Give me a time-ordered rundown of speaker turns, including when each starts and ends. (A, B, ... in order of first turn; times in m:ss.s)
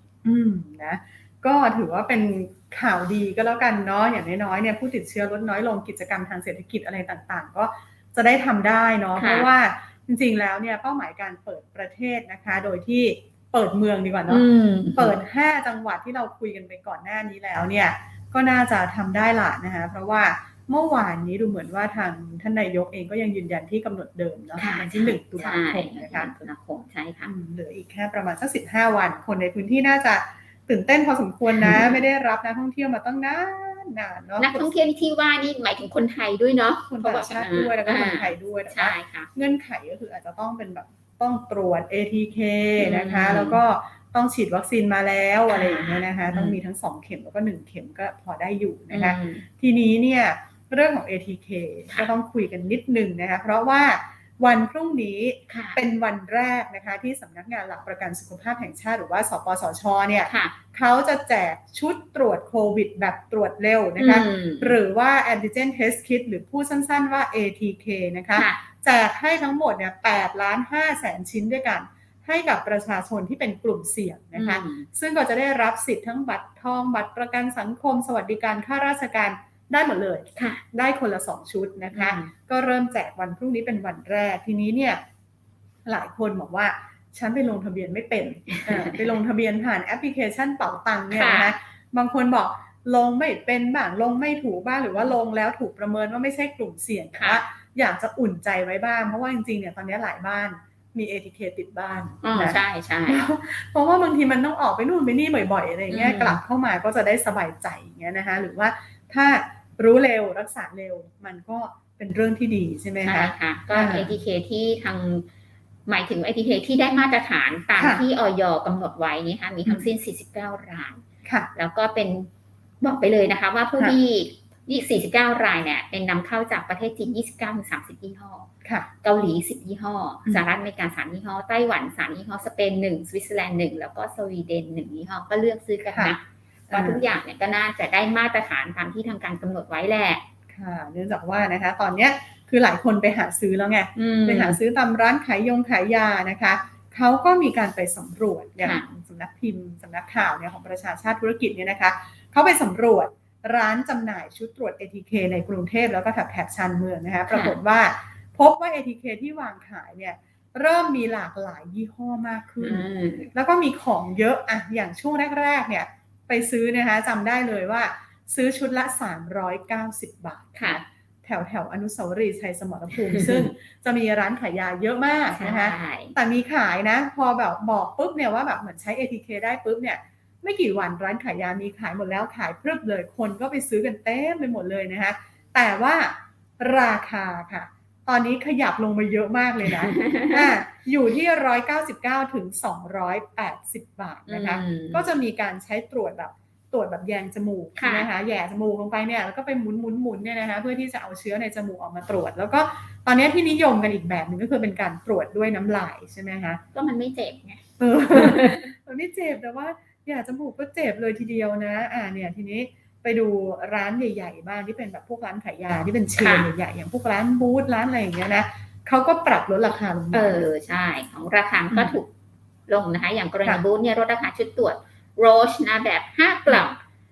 0:00.2-0:26.3 A
0:09.2-0:09.5 B
0:14.3-0:15.2 B
0:24.6-0:27.3 B
0:27.3-0:34.7 A
0:31.5-0:32.0 B
0:34.4-0:39.3 B
0:36.9-1:25.0 A
0:42.8-0:43.6 B
0:45.5-0:46.6 B
0:48.9-0:49.4 B
0:55.5-0:55.8 B
1:00.3-1:00.6 B
1:04.0-1:04.8 B
1:08.3-1:08.6 B
1:14.3-1:14.9 B
1:20.4-1:20.6 B
1:21.9-1:22.3 B
1:25.8-1:54.2 A
1:28.5-1:29.1 B
1:31.1-1:31.6 B
1:37.2-1:37.4 B
1:42.2-1:43.2 B
1:45.9-1:46.4 B
1:53.0-1:55.3 B
1:55.9-2:01.0 B
1:57.8-1:58.0 A
1:59.6-1:59.9 A
2:01.5-2:02.3 B
2:02.8-2:08.5 B
2:09.0-2:20.2 B
2:15.9-2:16.2 A
2:16.7-2:17.1 A
2:20.5-3:26.6 A
2:24.0-2:24.6 B
2:28.6-2:28.8 B
2:37.3-2:37.6 B
2:42.6-2:43.3 B
2:50.6-2:50.8 B
2:53.1-2:53.5 B
2:55.4-2:56.2 B
3:09.7-3:10.4 B
3:14.3-3:15.0 B
3:17.8-3:18.1 B
3:26.7-3:28.6 B
3:27.8-3:40.5 A
3:36.2-3:36.5 B
3:40.1-3:42.1 B
3:41.7-3:42.0 A
3:42.7-3:46.8 B